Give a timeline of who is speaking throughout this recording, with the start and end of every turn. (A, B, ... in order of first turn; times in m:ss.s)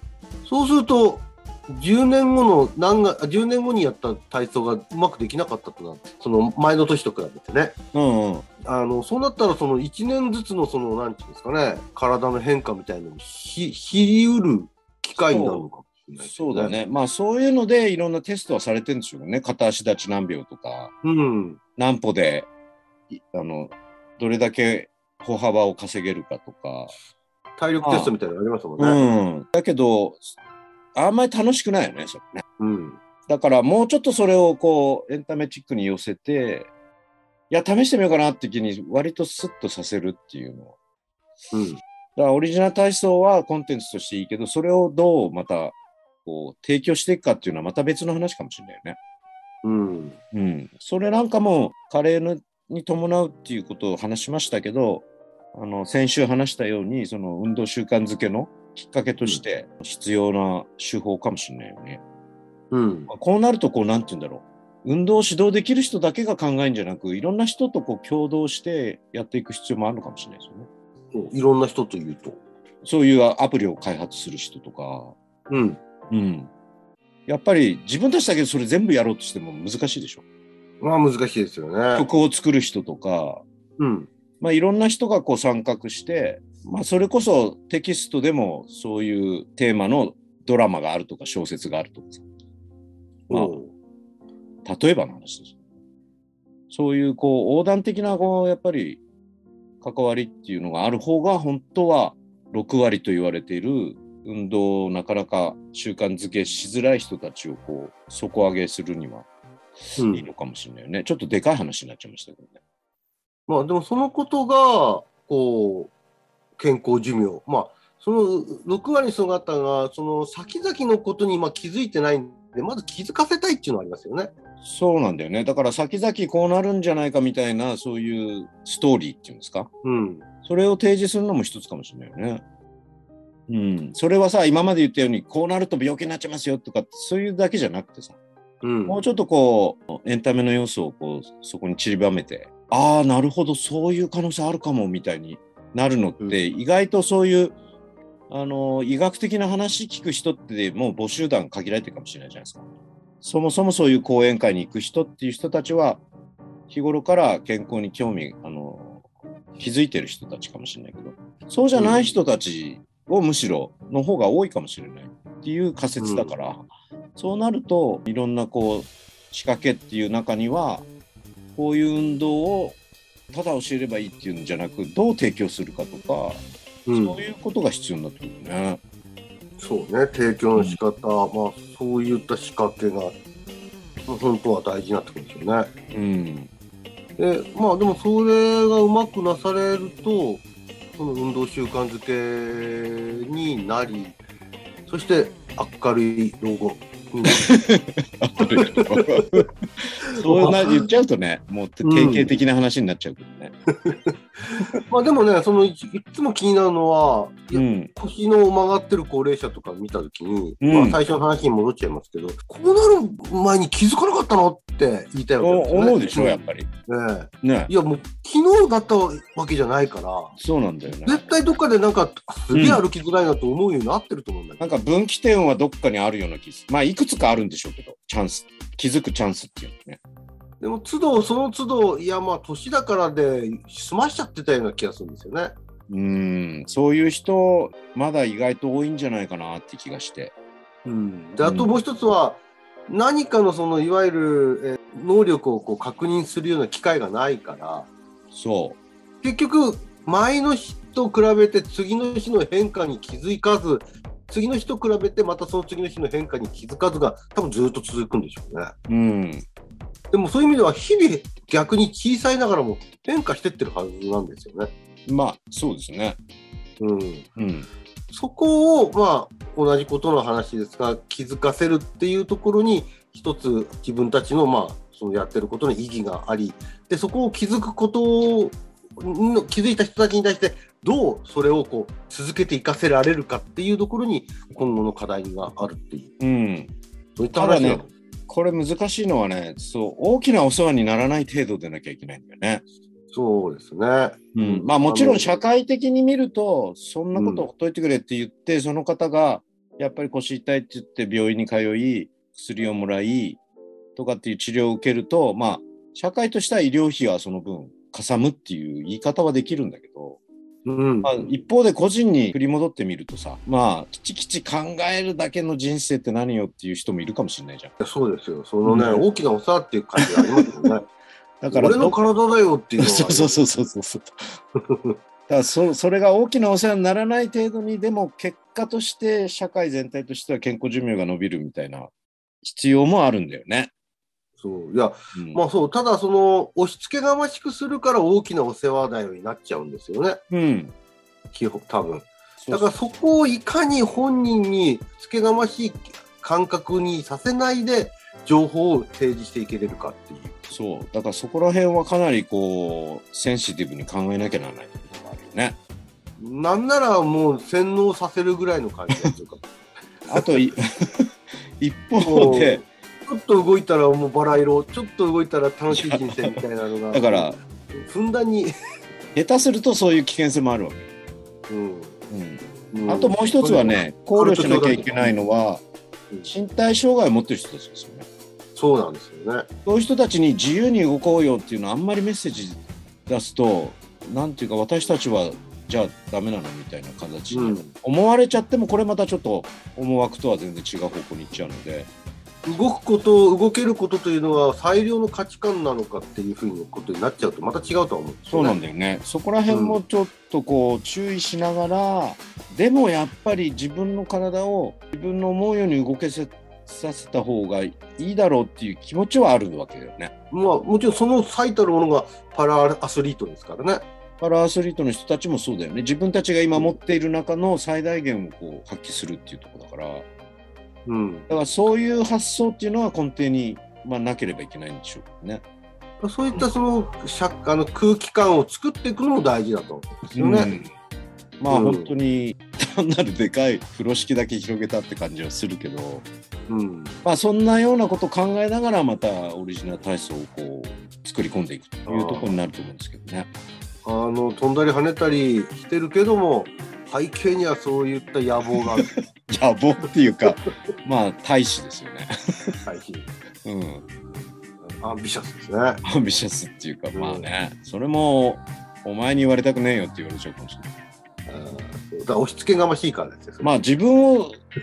0:00.4-0:07.7 A
0:07.9-0:08.5 B
0:08.6-0:16.7 A
0:15.1-0:15.6 B
0:16.2-0:20.9 B
0:21.0-0:21.6 A
0:21.8-0:22.5 B
0:23.1-0:26.9 B
0:27.6-0:29.0 A
0:27.8-0:28.1 B
0:28.8-0:30.2 B
0:31.0-0:32.4 B
0:32.6-0:33.0 A
0:33.3-0:36.7 B
0:37.5-0:40.7 B
0:41.5-0:41.8 A
0:42.2-0:49.0 B
0:49.6-0:50.2 A
0:50.3-1:02.0 B
1:02.7-1:03.1 A
1:03.1-1:10.7 B
1:11.1-1:12.4 A
1:12.8-1:15.1 B
1:15.5-1:15.8 A
1:16.1-1:16.5 B
1:17.3-1:20.2 B
1:20.8-1:22.1 A
1:21.9-1:23.4 B
1:23.8-1:24.1 A
1:24.4-1:32.2 B
1:33.3-1:33.7 A
1:33.3-1:33.6 B
1:34.6-1:35.6 B
1:36.7-1:39.0 B
1:39.8-1:49.3 B
1:49.9-1:52.6 B
1:50.0-1:50.3 A
1:53.5-1:55.9 A
1:56.6-2:04.3 A
2:04.6-2:09.7 B
2:09.8-2:10.2 A
2:10.4-2:12.4 B
2:13.5-2:18.2 B
2:18.6-2:19.0 A
2:18.8-2:27.6 B
2:28.3-2:32.6 B
2:33.2-2:36.0 B
2:36.7-2:39.0 B
2:39.6-2:50.8 B
2:41.7-2:42.1 A
2:46.0-2:46.3 A
2:51.6-2:52.8 B
2:53.3-2:56.4 B
2:56.8-2:57.2 A
2:56.9-2:58.8 B
2:59.6-3:03.2 A
3:04.1-3:05.7 A
3:05.9-3:06.5 B
3:07.2-3:10.4 A
3:11.0-3:14.2 A
3:14.9-3:17.5 A
3:17.3-3:23.5 B
3:18.4-3:19.4 A
3:20.1-3:20.8 A
3:21.8-3:22.4 A
3:23.8-3:24.1 A
3:24.9-3:40.3 A
3:27.5-3:27.9 B
3:30.6-3:31.0 B
3:35.4-3:36.7 B
3:37.4-3:37.7 B
3:40.4-3:41.2 B
3:40.9-3:44.7 A
3:42.5-3:42.8 B
3:44.6-3:50.0 B
3:50.6-3:55.5 A
3:55.9-4:00.3 B
4:00.8-4:07.9 A
4:01.4-4:01.8 B
4:08.3-4:08.8 B
4:09.2-4:18.7 A
4:18.9-4:19.4 B
4:20.1-4:24.7 A
4:25.1-4:26.2 B
4:26.8-4:27.3 A
4:27.4-4:27.7 B
4:28.1-4:46.1 A
4:46.2-4:46.7 B
4:47.2-4:47.9 A
4:47.3-4:52.6 B
4:53.1-4:55.4 A
4:54.3-5:03.4 B
4:57.1-4:57.4 A
5:04.0-5:10.2 B
5:10.6-5:11.3 A
5:11.0-5:17.7 B
5:17.8-5:20.8 A
5:18.6-5:19.0 B
5:20.0-5:20.4 B
5:21.4-5:22.0 B
5:21.5-5:23.4 A
5:22.8-5:24.1 B
5:24.6-5:24.9 A
5:25.3-5:31.9 B
5:32.4-5:33.7 B
5:34.4-5:40.2 A
5:35.1-5:35.4 B
5:40.3-5:40.7 B
5:41.3-5:50.5 A
5:42.4-5:42.7 B
5:50.5-5:55.6 B
5:56.2-5:59.4 A
6:00.1-6:01.1 B
6:01.6-6:02.6 B
6:02.0-6:08.5 A
6:05.7-6:06.4 B
6:06.9-6:07.4 B
6:09.1-6:10.9 B
6:11.5-6:12.0 A
6:12.1-6:15.6 B
6:12.7-6:15.2 A
6:16.2-6:18.0 B
6:18.6-6:19.5 A
6:19.6-6:31.9 B
6:27.3-6:27.7 A
6:32.4-6:38.6 A
6:38.3-6:50.1 B
6:39.5-6:39.8 A
6:50.3-6:53.8 A
6:54.2-7:00.0 B
7:00.8-7:01.3 A
7:01.3-7:05.4 B
7:06.0-7:10.5 A
7:10.1-7:10.6 B
7:11.4-7:16.0 B
7:11.5-7:11.9 A
7:16.5-7:17.0 A
7:17.0-7:23.3 B
7:21.8-7:22.3 A
7:23.8-7:28.9 A
7:28.8-7:32.6 B
7:32.6-7:33.1 A
7:33.4-7:33.8 B
7:34.1-7:35.8 A
7:35.8-7:40.7 B
7:36.9-7:37.3 A
7:41.3-7:43.5 A
7:43.4-7:44.4 B